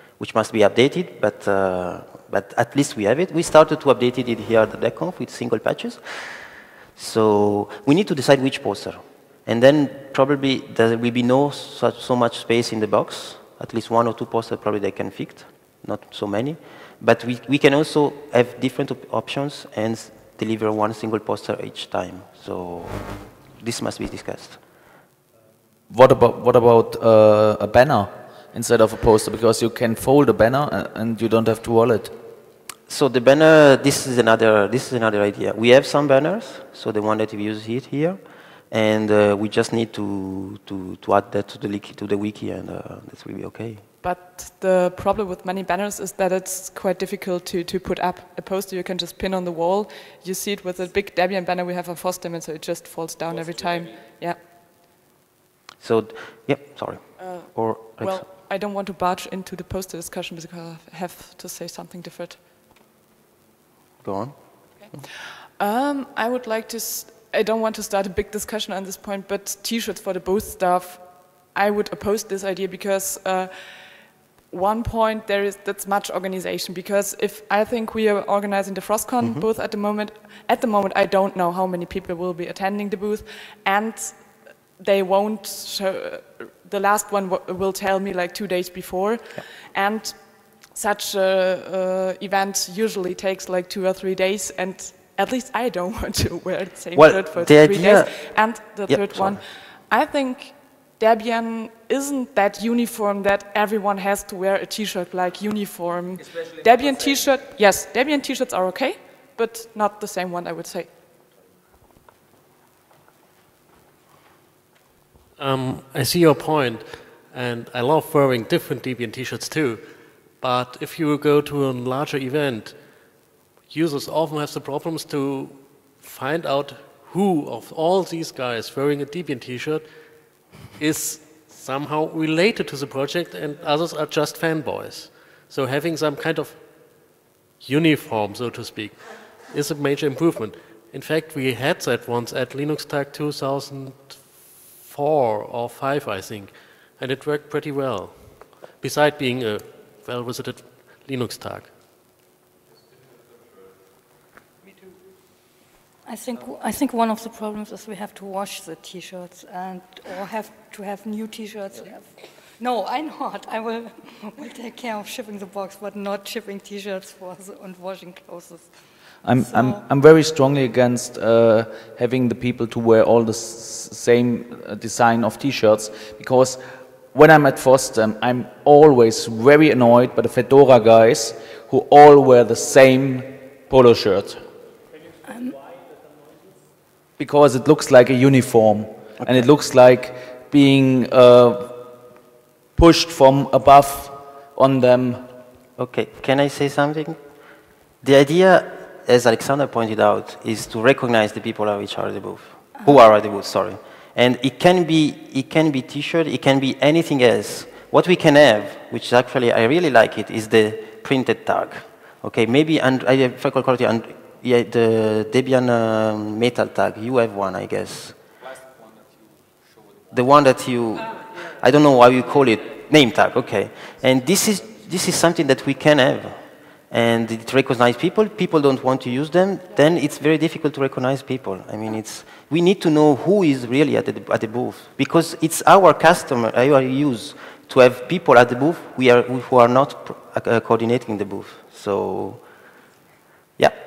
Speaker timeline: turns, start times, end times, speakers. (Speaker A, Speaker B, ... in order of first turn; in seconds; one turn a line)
Speaker A: 0.2-6.0
Speaker A: 7.0-23.1
Speaker A: 23.6-24.6
Speaker B: 25.9-32.1
Speaker A: 32.9-38.2
Speaker A: 38.7-43.8
Speaker C: 44.0-54.4
Speaker A: 55.8-58.2
Speaker C: 57.2-62.4
Speaker A: 64.0-64.4
Speaker C: 65.0-73.9
Speaker C: 74.5-110.9
Speaker A: 96.9-99.4
Speaker D: 115.4-119.9
Speaker D: 120.4-122.8
Speaker D: 123.7-129.9
Speaker D: 130.7-136.6
Speaker D: 137.6-151.7
Speaker E: 156.0-169.8
Speaker B: 169.2-184.4
Speaker E: 185.2-185.6
Speaker B: 187.2-191.9
Speaker A: 189.2-189.5
Speaker B: 192.8-195.3
Speaker A: 195.8-197.2
Speaker A: 198.0-218.1
Speaker A: 220.1-242.4